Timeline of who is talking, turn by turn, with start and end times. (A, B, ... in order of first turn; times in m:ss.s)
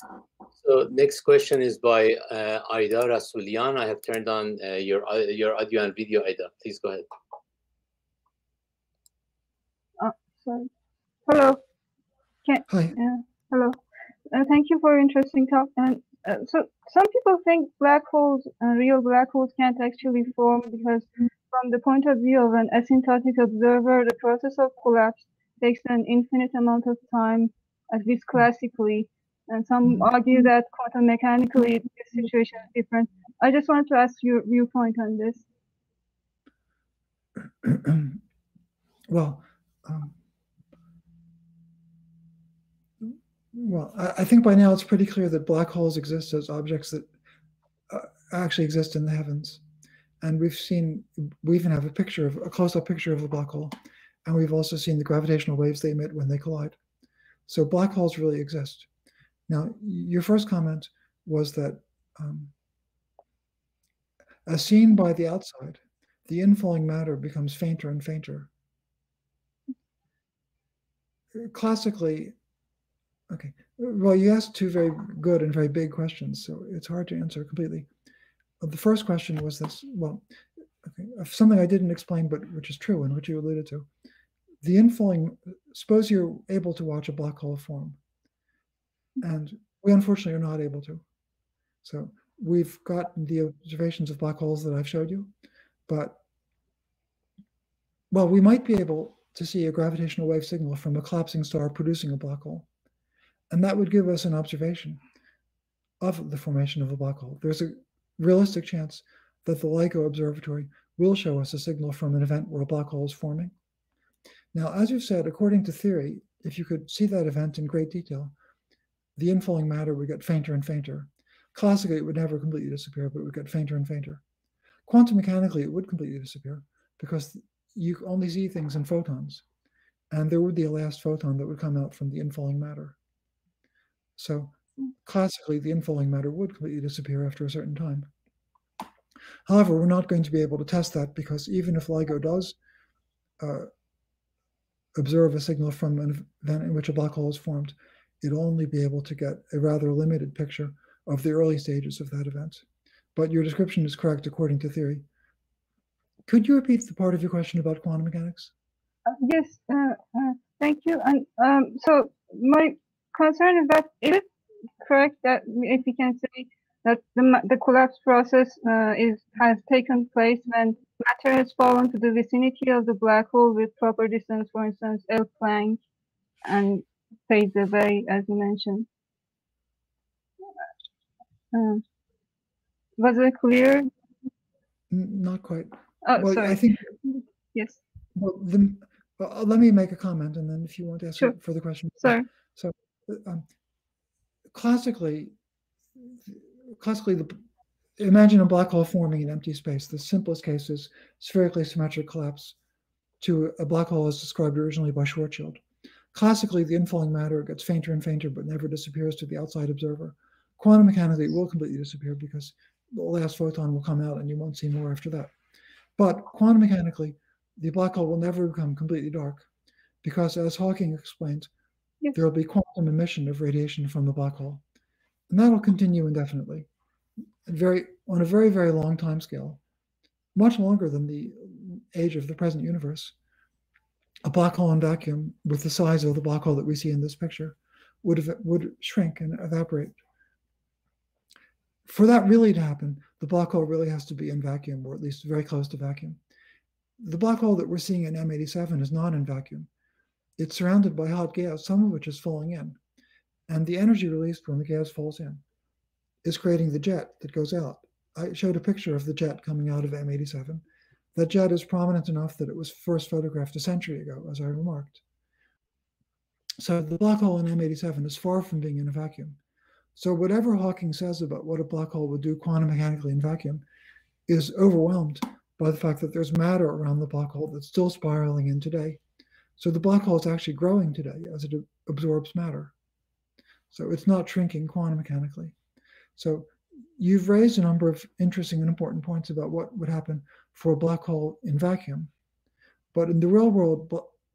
0:00.6-0:07.0 A
0:10.0-0:10.7 B
0:11.3-0:11.6 B
0:12.4-0:13.8 B
0:12.7-0:13.0 C
0:14.3-0:35.5 B
0:37.6-0:38.2 C
0:39.1-0:40.2 C
0:43.0-0:47.1 C
0:47.9-0:49.6 C
0:50.2-0:56.8 C
0:57.5-0:58.9 C
0:59.5-1:02.5 C
1:04.5-1:08.5 C
1:11.3-1:12.4 C
1:13.3-1:17.9 C
1:18.6-1:20.2 C
1:20.8-1:23.9 C
1:24.6-1:28.0 C
1:29.2-1:31.0 C
1:31.8-1:35.3 C
1:35.9-1:36.2 C
1:38.1-1:42.7 C
1:43.5-1:45.0 C
1:46.0-1:53.5 C
1:54.5-1:58.3 C
1:59.2-2:04.2 C
2:04.9-2:09.4 C
2:10.1-2:13.0 C
2:14.2-2:18.1 C
2:19.5-2:22.6 C
2:23.4-2:23.7 C
2:25.0-2:32.6 C
2:33.2-2:35.1 C
2:36.3-2:38.5 C
2:39.2-2:44.3 B
2:44.8-2:55.8 B
2:56.4-2:58.9 B
3:01.5-3:01.8 B
3:03.0-3:03.9 B
3:04.9-3:07.0 C
3:06.0-3:06.7 B
3:07.5-3:07.8 B
3:08.2-3:13.5 C
3:12.0-3:12.3 B
3:14.5-3:15.3 C
3:16.0-3:17.4 C
3:18.0-3:22.6 C
3:23.2-3:25.6 C
3:26.1-3:35.3 C
3:36.0-3:39.5 C
3:40.0-3:41.5 C
3:42.2-3:44.6 C
3:45.3-3:46.7 C
3:47.5-3:49.6 C
3:50.4-3:53.2 C
3:54.2-4:00.0 C
4:01.9-4:06.2 C
4:07.0-4:09.7 C
4:10.4-4:12.8 C
4:13.5-4:15.4 C
4:16.2-4:20.6 C
4:21.2-4:25.0 C
4:26.6-4:29.4 C
4:30.0-4:33.6 C
4:34.3-4:39.0 C
4:39.6-4:42.7 C
4:43.7-4:45.6 C
4:46.2-4:52.1 C
4:52.9-4:54.1 C